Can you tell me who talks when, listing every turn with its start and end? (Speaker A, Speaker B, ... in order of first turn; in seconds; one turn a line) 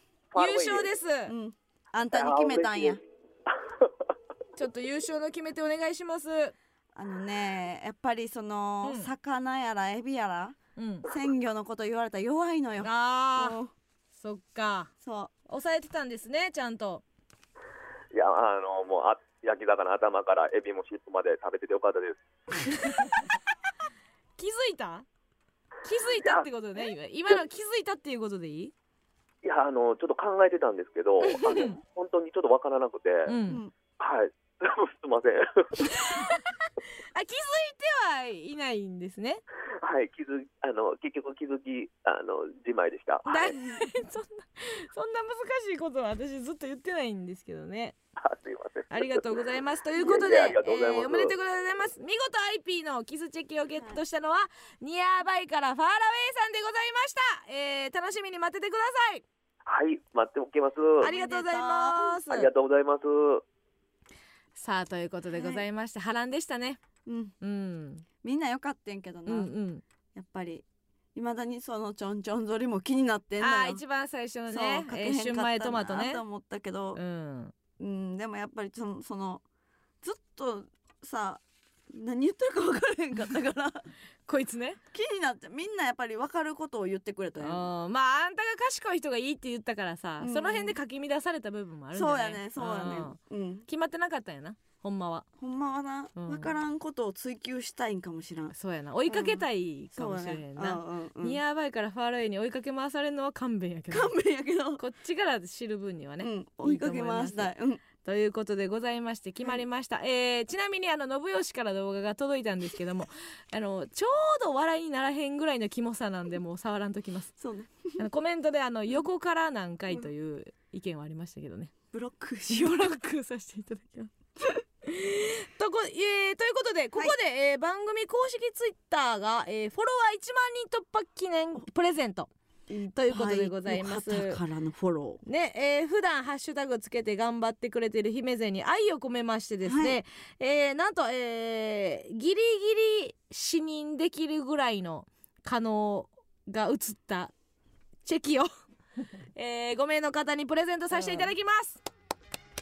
Speaker A: 0.3-0.9
Speaker B: 0.3-1.3
Speaker C: 1.3-3.0
Speaker A: 2.1-3.0
Speaker B: 4.6-6.5
Speaker C: 7.0-13.7
Speaker B: 8.8-9.1
Speaker B: 10.8-11.1
Speaker B: 12.8-13.6
Speaker B: 14.2-14.9
Speaker C: 15.0-15.3
Speaker B: 15.5-17.0
Speaker A: 18.1-22.2
Speaker B: 24.4-25.1
Speaker B: 25.8-28.7
Speaker A: 29.4-33.4
Speaker B: 31.2-31.8
Speaker B: 33.2-33.6
Speaker C: 33.5-33.7
Speaker A: 34.0-36.0
Speaker B: 36.0-36.4
Speaker B: 37.1-39.4
Speaker A: 39.8-43.5
Speaker B: 43.2-48.0
Speaker A: 48.2-49.2
Speaker B: 48.9-59.2
Speaker A: 50.0-51.3
Speaker A: 59.7-61.1
Speaker B: 61.0-62.5
Speaker C: 61.0-62.2
Speaker A: 62.3-63.4
Speaker B: 64.5-66.8
Speaker C: 65.3-65.6
Speaker C: 67.1-67.3
Speaker B: 67.4-68.0
Speaker C: 68.2-69.5
Speaker B: 69.3-69.8
Speaker C: 70.1-73.8
Speaker B: 73.4-76.2
Speaker C: 74.5-77.0
Speaker B: 77.0-77.5
Speaker C: 77.8-79.4
Speaker C: 80.0-83.9
Speaker B: 84.3-84.8
Speaker C: 84.9-87.7
Speaker B: 87.4-95.3
Speaker C: 90.2-90.8
Speaker C: 91.9-93.7
Speaker C: 95.4-98.5
Speaker B: 96.2-96.5
Speaker B: 98.5-104.1
Speaker C: 99.1-101.4
Speaker C: 103.9-104.8
Speaker B: 104.8-117.3
Speaker C: 106.2-107.8
Speaker C: 117.4-118.0
Speaker B: 118.0-121.7
Speaker C: 121.9-122.8
Speaker B: 122.5-124.1
Speaker B: 124.8-132.3
Speaker C: 132.7-135.2
Speaker B: 132.9-134.4
Speaker B: 135.2-147.3
Speaker C: 139.7-140.0
Speaker B: 148.0-148.5
Speaker B: 149.3-151.8
Speaker C: 150.9-151.3